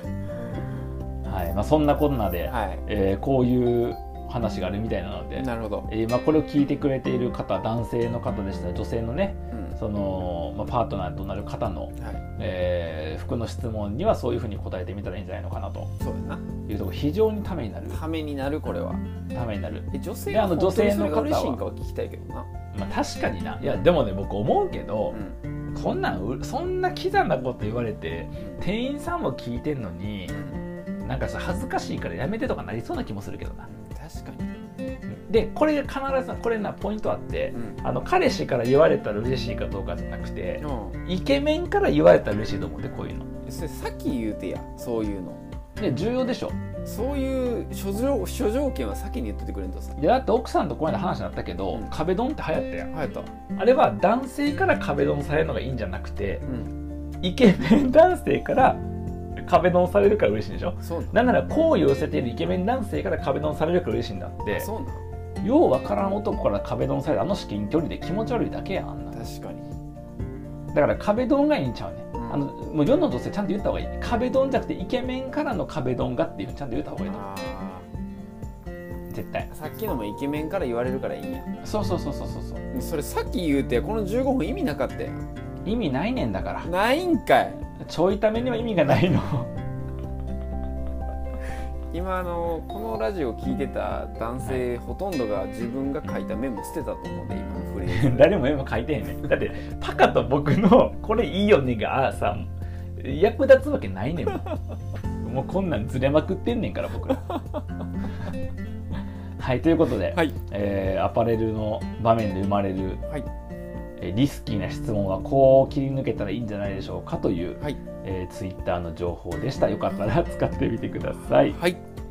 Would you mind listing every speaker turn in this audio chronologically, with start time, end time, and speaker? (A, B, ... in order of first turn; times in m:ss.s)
0:01.2-0:15.9 A
0:02.5-0:02.8 B
0:05.4-0:05.9 B
0:09.5-0:09.8 B
0:12.0-0:12.2 B
0:16.0-0:16.4 B
0:16.7-0:18.0 A
0:17.9-0:19.0 B
0:19.3-0:21.6 A
0:19.9-0:22.5 B
0:22.7-0:25.2 A
0:23.6-0:23.9 B
0:25.1-0:25.4 B
0:25.7-0:30.4 A
0:30.3-0:30.6 B
0:31.0-0:33.7 A
0:33.6-0:34.5 B
0:35.1-0:43.3 A
0:37.5-0:37.8 B
0:40.6-0:41.0 B
0:43.4-0:45.4 B
0:45.8-0:46.6 A
0:46.8-0:50.0 B
0:50.0-0:52.9 A
0:52.9-0:53.3 B
0:53.6-0:56.4 A
0:56.4-0:56.7 B
0:57.2-0:58.8 A
0:59.4-1:04.7 A
1:00.8-1:01.2 B
1:04.5-1:05.0 B
1:05.4-1:09.2 A
1:09.1-1:09.6 B
1:10.7-1:17.2 A
1:12.1-1:12.5 B
1:17.0-1:17.9 B
1:19.1-1:19.5 A
1:19.5-1:21.5 B
1:21.6-1:22.6 A
1:22.7-1:25.2 B
1:25.6-1:26.7 A
1:26.6-1:27.6 B
1:27.7-1:29.5 A
1:31.9-1:38.4 B
1:37.8-1:44.5 A
1:45.2-1:47.2 A
1:47.3-1:47.6 B
1:49.4-1:53.0 A
1:54.0-2:01.6 A
2:01.4-2:01.8 B